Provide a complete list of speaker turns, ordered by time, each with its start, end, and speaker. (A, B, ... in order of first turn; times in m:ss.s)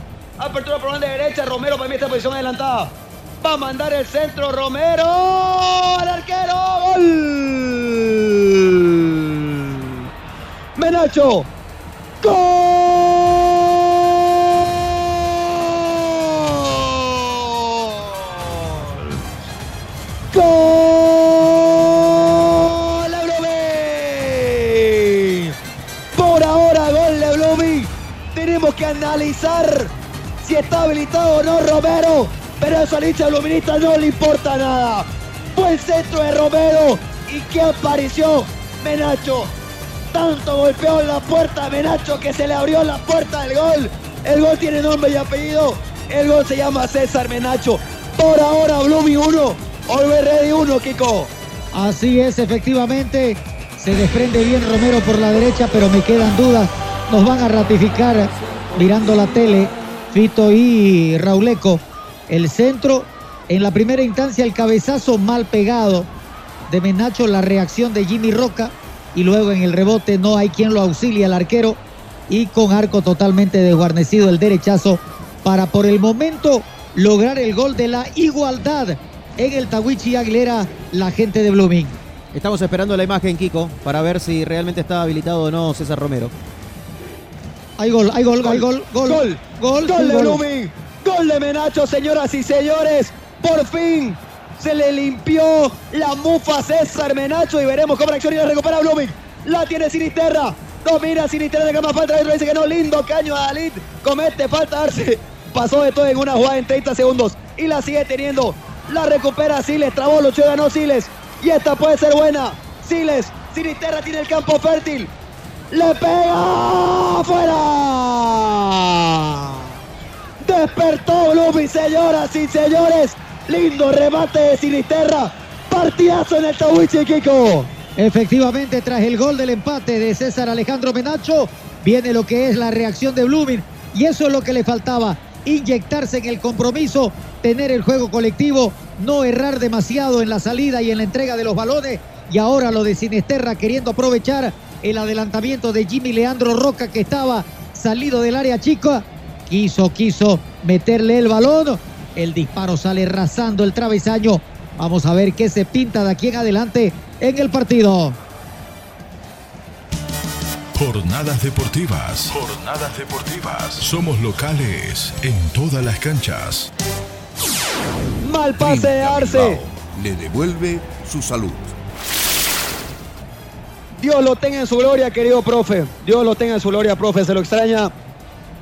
0:00.4-0:09.8 A
0:10.8-0:11.5 A
0:12.2-0:19.2 A
0:20.3-0:25.6 A
0:26.2-0:39.5 A
0:40.1-0:51.3 A
0:51.7-1:06.1 B
1:06.7-1:22.0 B
1:22.3-1:26.3 C
1:27.8-1:30.4 B
1:28.4-1:55.1 A
1:55.7-1:59.7 A
2:00.4-2:07.7 A
2:08.0-2:38.2 B
2:40.8-2:46.7 D
2:48.2-2:49.6 A
2:48.6-2:51.8 E
2:54.0-2:57.9 A